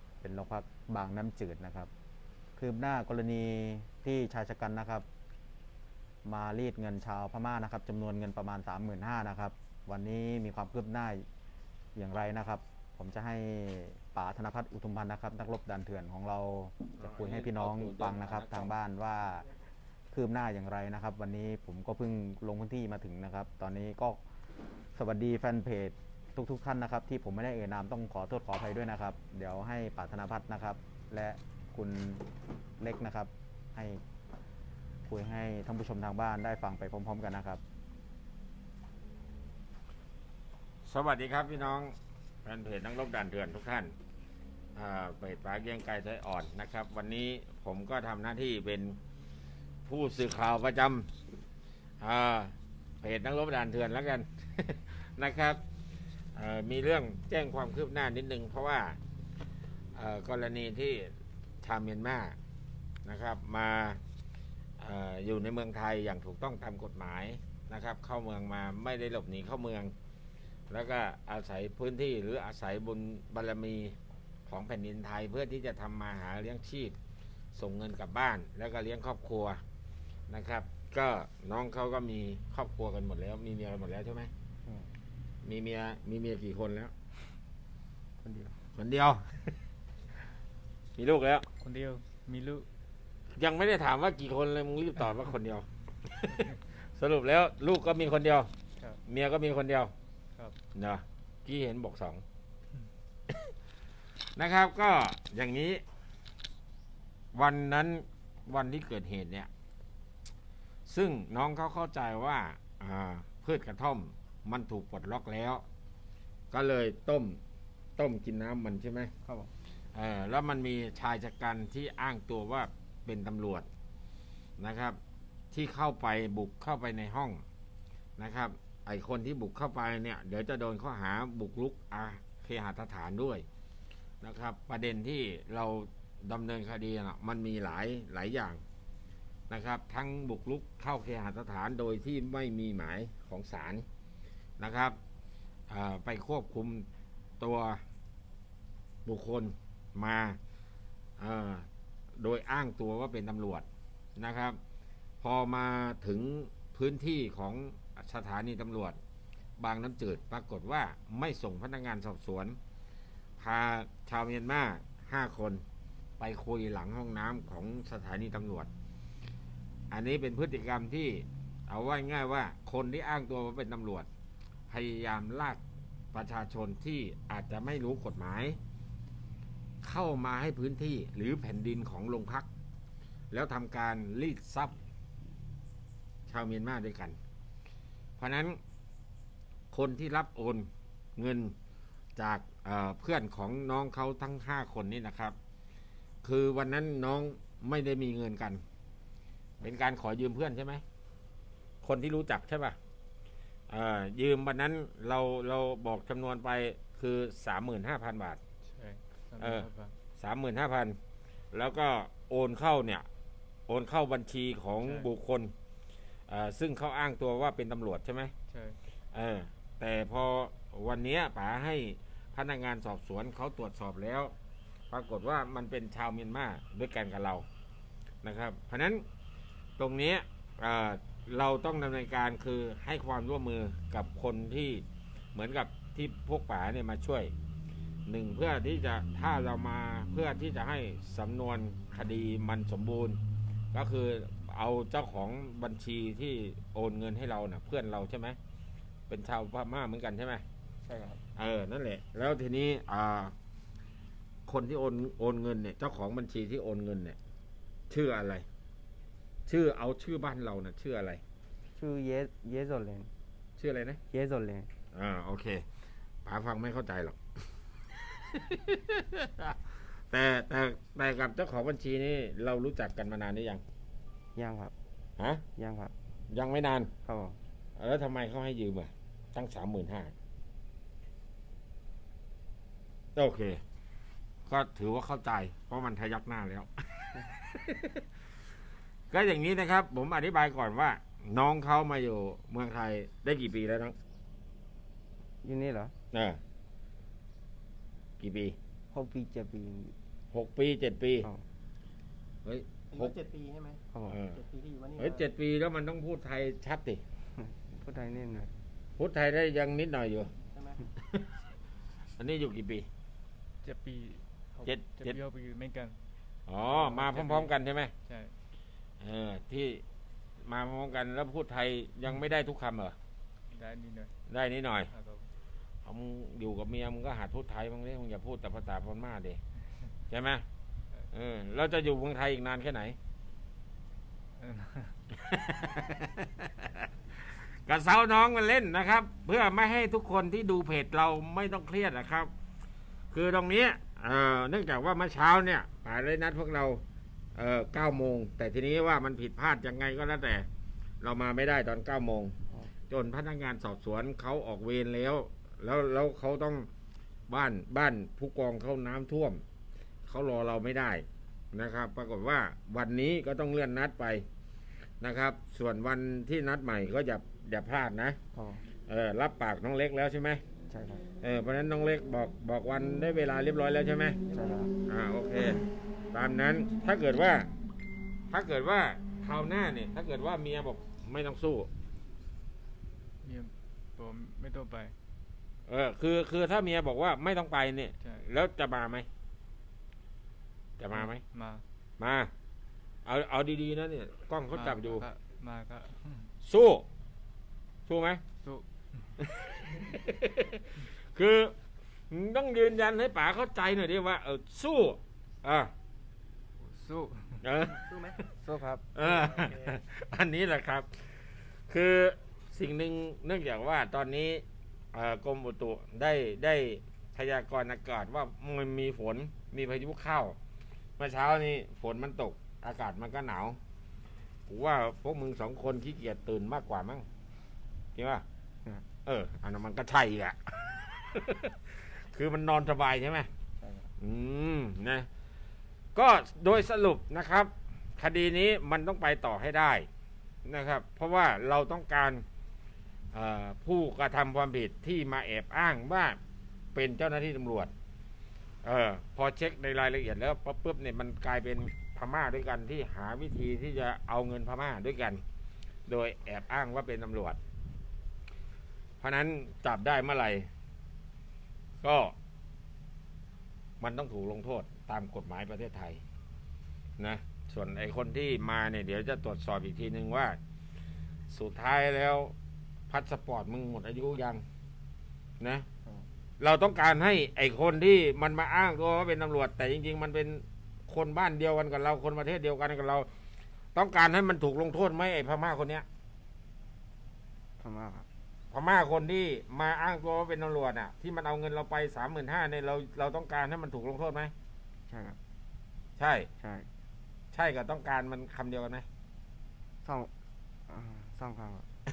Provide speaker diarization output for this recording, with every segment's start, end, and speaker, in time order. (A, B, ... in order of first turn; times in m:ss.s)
0:00.2-0:01.9 A
0:02.6-0:05.0 A
0:06.2-0:11.2 A
0:11.9-0:19.4 A
0:17.0-0:18.7 B
0:20.1-0:24.2 A
0:25.0-0:32.2 A
0:32.8-0:34.0 A
0:35.1-0:37.6 A
0:40.8-0:43.9 B
0:44.8-0:49.0 B
0:49.9-0:51.1 B
0:52.0-0:55.6 B
0:56.3-0:59.0 B
0:59.9-1:02.4 B
1:03.0-1:04.0 B
1:04.8-1:09.9 B
1:10.7-1:14.0 B
1:14.5-1:16.9 B
1:17.5-1:19.6 B
1:20.3-1:24.3 B
1:25.4-1:26.9 B
1:28.2-1:28.6 C
1:28.8-1:29.3 B
1:31.0-1:31.4 B
1:31.6-1:32.7 D
1:33.4-1:38.5 B
1:39.1-1:39.9 B
1:40.7-1:42.2 B
1:44.3-1:45.8 B
1:47.3-1:49.5 B
1:50.9-1:55.6 B
1:56.5-1:57.4 B
1:58.0-1:59.1 B
1:59.9-2:03.7 B
2:04.6-2:05.0 B
2:05.5-2:07.4 B
2:08.2-2:13.4 B
2:14.2-2:18.6 B
2:19.5-2:23.8 B
2:24.6-2:25.0 B
2:25.7-2:26.9 B
2:27.4-2:27.8 B
2:29.0-2:30.4 B
2:31.2-2:33.6 B
2:34.2-2:34.6 B
2:35.2-2:39.0 B
2:39.6-2:42.6 B
2:43.4-2:45.6 B
2:46.2-2:48.7 B
2:49.9-2:54.1 B
2:54.7-2:55.6 B
2:56.1-2:58.6 B
2:59.8-3:02.5 B
3:03.3-3:04.7 B
3:06.3-3:07.2 B
3:08.2-3:08.6 B
3:09.7-3:11.5 B
3:12.2-3:15.3 B
3:16.2-3:18.6 B
3:19.6-3:20.8 B
3:21.8-3:22.8 B
3:23.7-3:28.4 B
3:28.7-3:29.9 D
3:29.4-3:31.0 B
3:31.5-3:33.0 B
3:33.7-3:35.5 B
3:36.3-3:38.3 B
3:39.1-3:44.3 B
3:44.9-3:47.4 B
3:48.2-3:49.0 B
3:49.8-3:57.3 B
3:58.0-4:03.2 B
4:03.7-4:08.4 B
4:09.1-4:10.4 B
4:10.9-4:11.2 C
4:11.4-4:13.3 B
4:14.5-4:17.2 B
4:17.9-4:18.4 B
4:19.5-4:21.2 B
4:21.7-4:23.1 C
4:23.6-4:24.0 B
4:24.1-4:24.7 C
4:24.9-4:25.6 B
4:26.2-4:27.2 B
4:28.2-4:33.6 B
4:34.3-4:34.7 C
4:35.2-4:35.4 B
4:35.6-4:35.9 C
4:36.3-4:36.9 B
4:37.0-4:37.4 C
4:37.8-4:40.1 B
4:43.2-4:43.6 B
4:44.5-4:48.0 B
4:49.1-4:53.9 B
4:55.4-4:55.9 C
4:56.1-4:56.4 B
4:58.2-4:58.6 B
4:58.9-5:00.0 C
5:00.3-5:01.3 B
5:02.4-5:03.1 B
5:02.9-5:05.2 E
5:03.9-5:04.2 C
5:04.0-5:04.4 B
5:05.0-5:07.0 B
5:07.4-5:08.5 C
5:09.0-5:10.3 B
5:10.5-5:10.8 E
5:12.2-5:12.9 B
5:13.6-5:16.0 D
5:14.6-5:15.2 B
5:16.5-5:17.9 B
5:16.7-5:17.5 D
5:19.0-5:19.8 B
5:20.4-5:23.0 B
5:23.6-5:24.1 D
5:24.3-5:24.9 B
5:24.9-5:25.2 D
5:25.8-5:29.4 B
5:30.1-5:30.4 B
5:31.1-5:33.0 B
5:34.4-5:34.9 D
5:35.2-5:42.3 B
5:43.1-5:46.8 B
5:47.4-5:50.5 B
5:51.0-5:52.4 B
5:52.9-5:56.7 B
5:57.3-5:59.4 B
6:00.1-6:04.2 B
6:05.0-6:08.2 B
6:08.3-6:08.6 C
6:08.9-6:10.4 B
6:10.7-6:11.0 C
6:11.2-6:14.2 B
6:14.3-6:14.7 C
6:14.9-6:17.5 B
6:18.3-6:21.7 B
6:23.2-6:24.9 D
6:25.7-6:29.1 B
6:30.8-6:31.2 B
6:31.3-6:31.6 D
6:32.0-6:32.3 B
6:33.0-6:35.0 B
6:34.5-6:36.3 D
6:36.4-6:36.8 B
6:37.9-6:38.2 B
6:39.3-6:41.5 B
6:42.1-6:45.7 B
6:46.6-6:47.4 D
6:47.4-6:48.2 B
6:47.8-6:48.2 E
6:48.4-6:48.8 C
6:48.9-7:00.4 B
6:49.0-6:49.8 E
7:01.0-7:03.6 B
7:04.5-7:07.0 B
7:07.9-7:08.2 B
7:09.0-7:13.3 B
7:13.6-7:13.9 C
7:14.0-7:15.1 B
7:15.9-7:19.9 B
7:20.4-7:22.2 B
7:23.1-7:26.2 B
7:26.7-7:27.7 B
7:28.6-7:35.2 B
7:35.9-7:37.4 B
7:39.0-7:40.5 B
7:41.8-7:42.1 B
7:43.8-7:46.0 B
7:47.0-7:50.4 B
7:51.3-7:52.3 B
7:52.9-7:54.4 B
7:55.4-7:55.6 B
7:56.4-8:03.1 B
8:03.7-8:05.8 B
8:07.6-8:08.1 C
8:08.5-8:14.3 B
8:14.9-8:15.2 C
8:16.0-8:16.3 B
8:16.4-8:16.7 C
8:17.3-8:18.8 B
8:19.8-8:20.1 C
8:20.7-8:21.7 C